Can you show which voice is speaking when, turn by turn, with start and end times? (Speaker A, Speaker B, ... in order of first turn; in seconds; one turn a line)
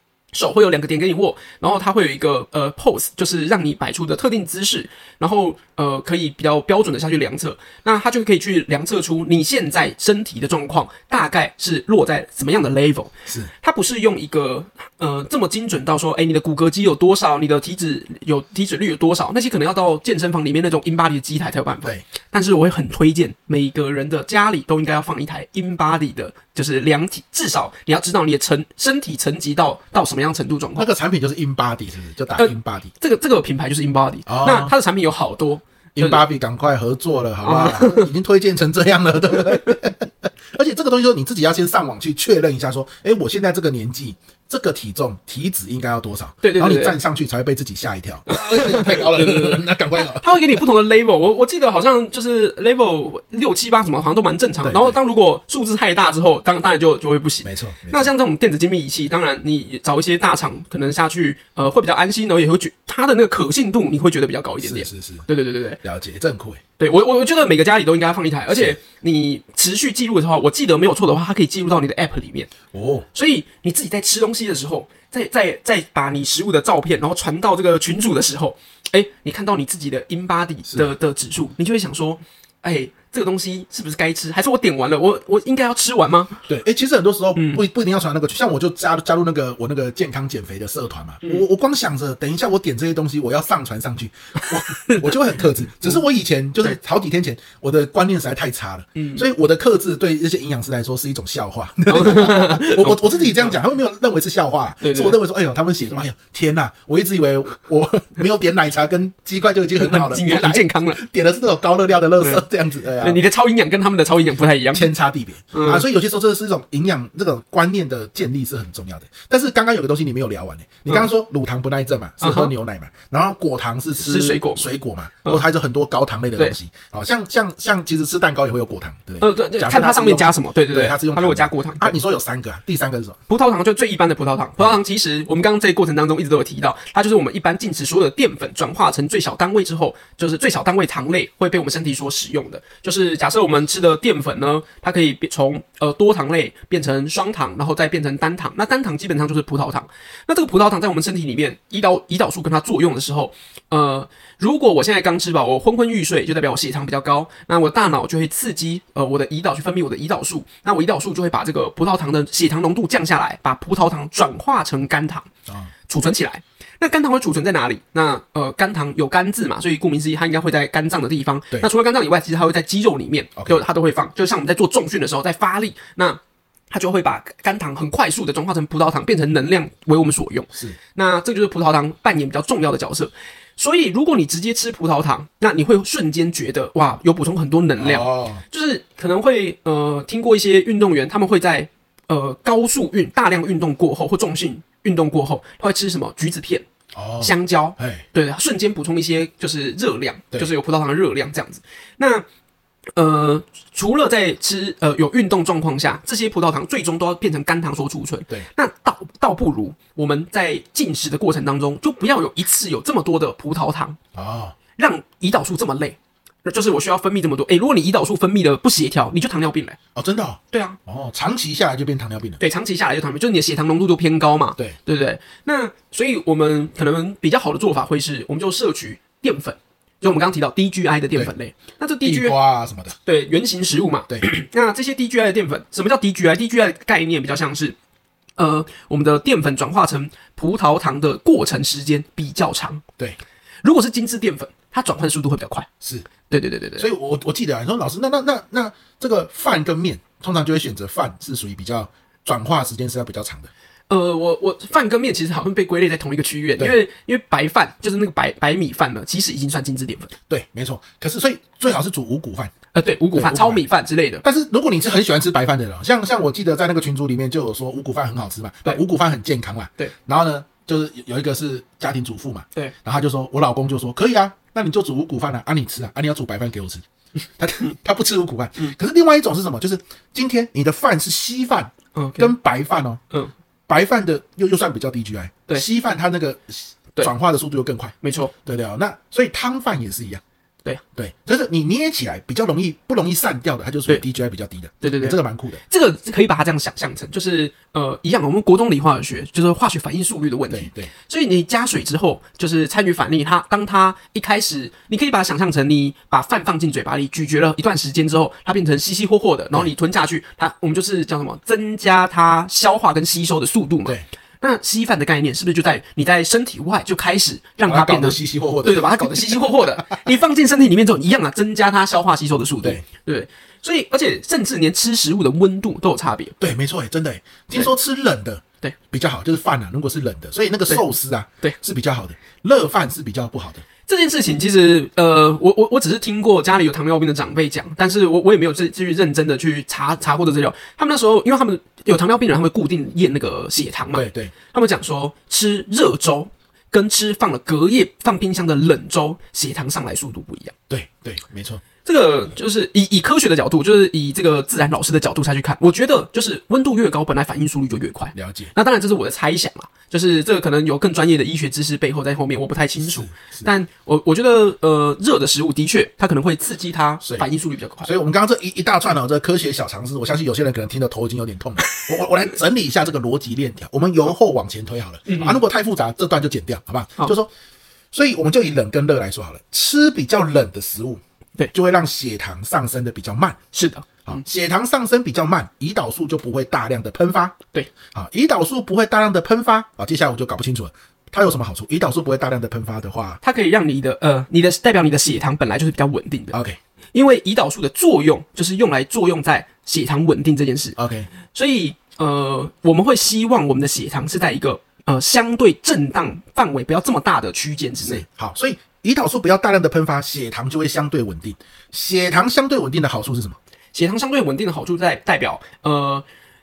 Speaker A: 0.3-30.9
Speaker B: 30.8-32.9
Speaker A: 32.4-36.2
Speaker B: 34.2-34.7
Speaker B: 36.0-50.6
Speaker A: 37.4-38.1
Speaker A: 46.4-47.0
Speaker A: 48.3-65.8
Speaker B: 54.6-55.0
Speaker B: 57.4-58.1
Speaker B: 64.6-65.2
Speaker B: 65.8-66.6
Speaker A: 66.8-72.5
Speaker B: 68.5-68.8
Speaker B: 72.7-73.1
Speaker A: 73.1-86.4
Speaker B: 86.5-113.2
Speaker A: 87.3-87.6
Speaker A: 94.7-95.1
Speaker A: 99.0-99.2
Speaker A: 101.9-103.5
Speaker A: 104.8-105.2
Speaker A: 109.8-111.0
Speaker A: 113.0-114.9
Speaker B: 114.7-133.2
Speaker A: 115.5-115.8
Speaker A: 122.2-122.5
Speaker A: 124.0-124.7
Speaker A: 129.2-131.9
Speaker A: 133.3-165.3
Speaker A: 165.9-196.6
Speaker B: 173.4-173.6
Speaker B: 187.8-188.4
Speaker B: 196.9-198.0
Speaker A: 197.2-202.2
Speaker A: 202.9-214.0
Speaker B: 214.1-214.6
Speaker A: 214.8-219.8
Speaker B: 219.9-222.4
Speaker A: 220.5-220.8
Speaker A: 222.4-232.3
Speaker B: 232.0-232.9
Speaker A: 233.0-237.8
Speaker A: 238.4-242.8
Speaker A: 243.6-245.7
Speaker B: 245.8-246.1
Speaker A: 246.3-246.9
Speaker B: 246.8-253.5
Speaker A: 253.9-260.1
Speaker B: 260.3-262.5
Speaker A: 262.7-264.2
Speaker B: 263.1-263.6
Speaker B: 264.2-276.8
Speaker B: 277.4-283.0
Speaker A: 281.9-282.3
Speaker B: 283.7-290.2
Speaker A: 288.0-288.3
Speaker B: 290.9-295.6
Speaker A: 294.8-295.2
Speaker A: 295.7-326.4
Speaker B: 300.5-300.9
Speaker B: 317.6-320.0
Speaker B: 326.4-333.6
Speaker A: 333.9-350.5
Speaker B: 343.9-344.3
Speaker B: 350.7-351.6
Speaker A: 351.8-367.9
Speaker B: 358.1-358.5
Speaker B: 362.8-363.5
Speaker B: 367.8-377.3
Speaker A: 375.1-375.4
Speaker B: 377.9-383.4
Speaker A: 383.5-384.2
Speaker B: 384.1-387.4
Speaker B: 387.9-393.2
Speaker A: 393.2-396.4
Speaker B: 396.3-396.6
Speaker A: 396.9-400.8
Speaker B: 400.8-401.1
Speaker A: 401.3-408.0
Speaker B: 407.8-413.4
Speaker A: 413.7-416.1